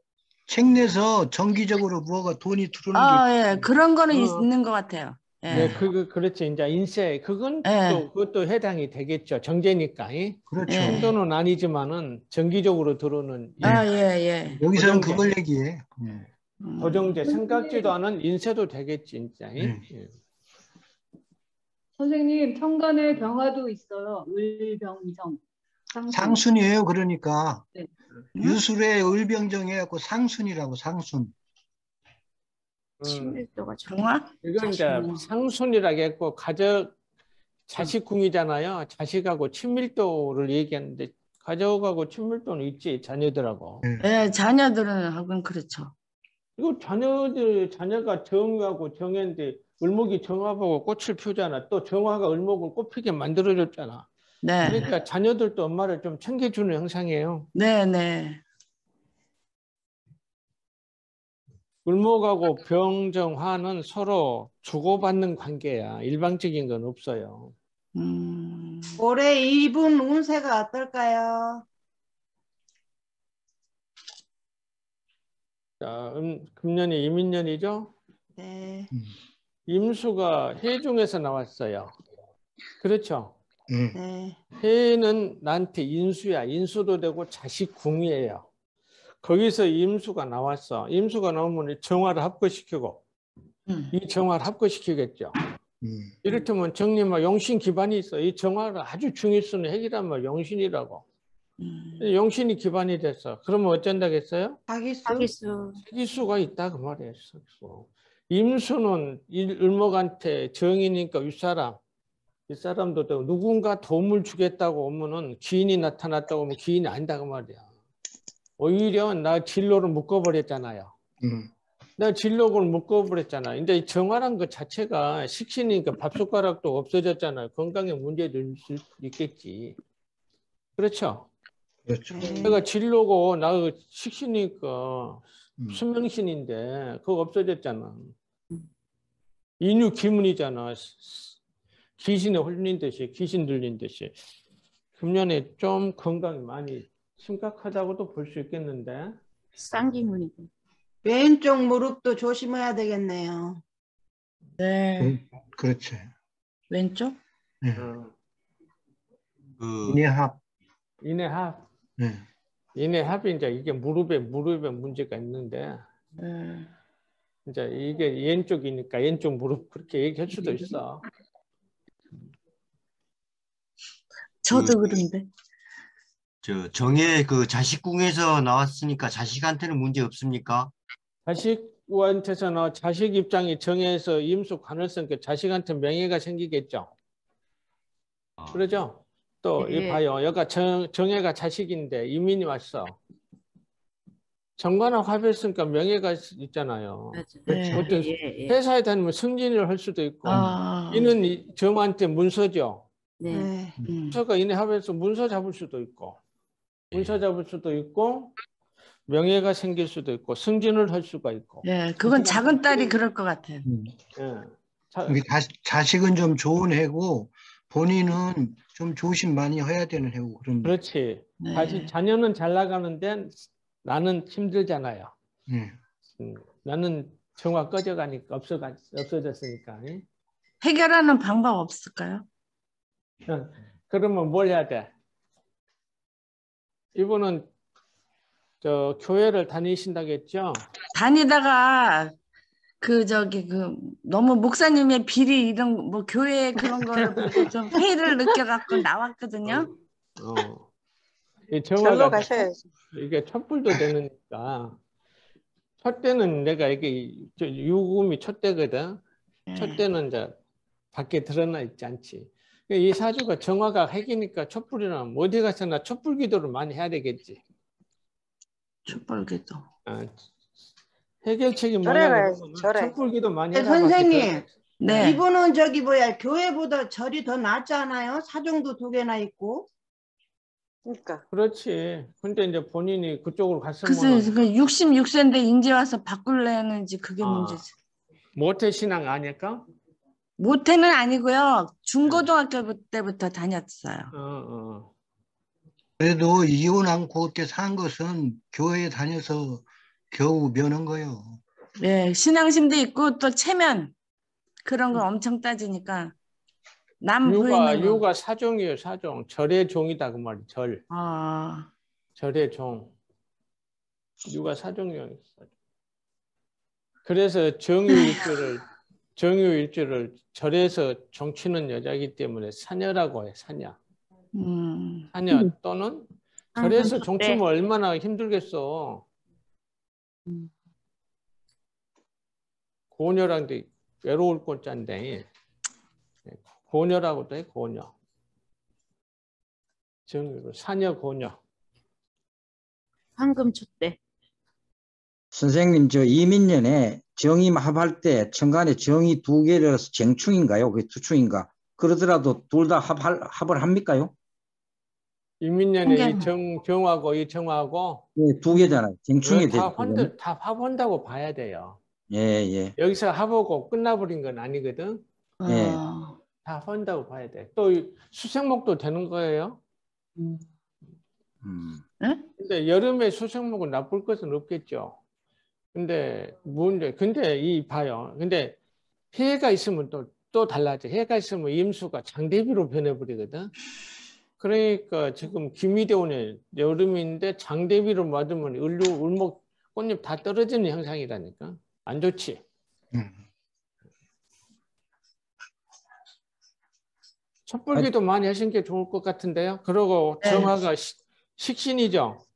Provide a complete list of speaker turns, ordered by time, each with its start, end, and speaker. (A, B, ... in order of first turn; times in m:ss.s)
0:00.5-0:03.6 A
0:02.9-0:05.8 B
0:04.1-0:04.5 C
0:05.5-0:13.7 C
0:07.6-0:08.0 B
0:10.5-0:11.1 A
0:10.7-0:11.1 B
0:13.6-0:13.9 A
0:13.6-0:14.6 B
0:14.5-0:16.2 A
0:14.7-0:15.3 C
0:16.6-0:17.2 B
0:16.8-0:20.1 C
0:17.2-0:17.9 D
0:19.6-0:19.8 A
0:22.0-0:25.4 D
0:25.9-0:26.4 D
0:26.1-0:27.6 A
0:28.4-0:31.3 A
0:33.0-0:33.4 C
0:33.0-0:34.0 E
0:33.9-0:34.3 B
0:34.4-0:36.9 C
0:34.6-0:35.2 E
0:37.7-0:43.8 C
0:44.0-0:45.9 B
0:46.6-0:54.1 C
0:54.4-0:54.9 B
0:54.6-0:57.5 C
0:57.5-0:58.4 B
1:01.8-1:07.5 C
1:07.9-1:09.0 B
1:09.0-1:11.6 F
1:15.8-1:17.9 C
1:18.4-1:18.9 F
1:19.7-1:21.9 C
1:22.8-1:23.4 C
1:23.7-1:24.0 A
1:23.9-1:24.4 F
1:24.6-1:28.4 C
1:29.2-1:33.0 C
1:33.7-1:33.9 B
1:33.9-1:35.4 C
1:35.8-1:36.1 A
1:36.2-1:41.0 C
1:41.6-1:42.0 B
1:42.0-1:44.6 C
1:44.7-1:45.3 F
1:45.0-1:45.8 E
1:45.8-1:51.8 C
1:52.5-1:57.6 C
1:58.6-2:00.9 C
2:01.2-2:01.5 A
2:02.0-2:09.8 C
2:10.8-2:11.3 C
2:11.9-2:12.5 A
2:12.1-2:12.6 F
2:12.4-2:18.1 C
2:19.6-2:21.4 C
2:22.0-2:24.2 C
2:25.0-2:29.2 C
2:29.6-2:30.5 E
2:31.0-2:33.6 F
2:34.6-2:35.2 B
2:35.0-2:36.1 A
2:36.7-2:37.2 B
2:37.6-2:37.9 A
2:37.8-2:38.1 C
2:39.6-2:40.0 G
2:39.8-2:40.4 A
2:41.0-2:41.6 C
2:42.0-2:42.2 A
2:42.8-2:45.8 C
2:46.2-2:46.7 B
2:47.4-2:51.0 C
2:54.4-2:55.3 B
2:56.4-3:00.7 G
3:01.2-3:06.9 C
3:08.5-3:13.0 C
3:09.6-3:10.0 E
3:14.6-3:22.9 C
3:17.1-3:18.6 E
3:17.5-3:17.8 B
3:20.2-3:21.1 B
3:20.3-3:20.6 A
3:23.2-3:23.5 E
3:23.3-3:23.8 F
3:23.9-3:24.2 B
3:24.1-3:26.2 C
3:26.9-3:28.3 C
3:29.1-3:32.9 C
3:31.6-3:33.6 B
3:33.6-3:33.9 A
3:34.2-3:35.2 C
3:35.0-3:40.8 A
3:40.6-3:45.1 C
3:41.4-3:41.9 B
3:45.5-3:45.8 A
3:46.2-3:50.0 C
3:50.6-3:52.2 B
3:53.3-3:54.9 C
3:56.9-3:57.5 C
3:58.6-4:00.6 C
4:00.9-4:02.1 B
4:02.8-4:09.7 B
4:07.0-4:07.4 C
4:09.4-4:10.7 C
4:11.5-4:12.2 C
4:11.8-4:12.6 H
4:12.9-4:14.8 C
4:15.8-4:19.0 C
4:19.5-4:19.8 B
4:19.6-4:20.3 C
4:20.9-4:27.4 C
4:28.9-4:29.6 B
4:29.9-4:30.2 C
4:31.2-4:35.2 C
4:31.8-4:32.9 H
4:33.5-4:39.7 F
4:34.8-4:35.2 B
4:40.9-4:41.2 H
4:41.3-4:44.3 C
4:43.8-4:47.7 B
4:47.2-4:47.6 C
4:48.4-4:49.7 C
4:50.4-4:54.1 B
4:54.1-4:54.9 C
4:56.0-5:01.4 A
5:01.8-5:03.9 B
5:04.6-5:06.1 B
5:07.0-5:08.0 B
5:07.2-5:10.8 C
5:10.9-5:11.7 B
5:12.2-5:12.9 C
5:14.3-5:15.5 C
5:17.0-5:18.6 C
5:17.9-5:18.3 B
5:19.2-5:23.8 C
5:24.3-5:25.1 B
5:25.1-5:29.0 C
5:26.6-5:27.4 E
5:32.9-5:35.3 C
5:36.3-5:37.9 C
5:40.1-5:41.4 C
5:43.2-5:44.0 E
5:45.3-5:54.1 I
5:55.4-5:58.0 C
5:55.8-5:56.2 B
5:58.2-6:00.1 I
5:59.2-6:01.8 C
6:02.1-6:02.7 I
6:02.8-6:05.0 C
6:05.4-6:06.2 B
6:05.4-6:05.8 I
6:06.4-6:09.6 C
6:11.4-6:11.8 I
6:12.4-6:15.0 C
6:15.7-6:18.6 C
6:19.1-6:23.5 C
6:24.4-6:32.4 C
6:32.9-6:33.2 A
6:37.5-6:42.2 C
6:40.2-6:40.5 B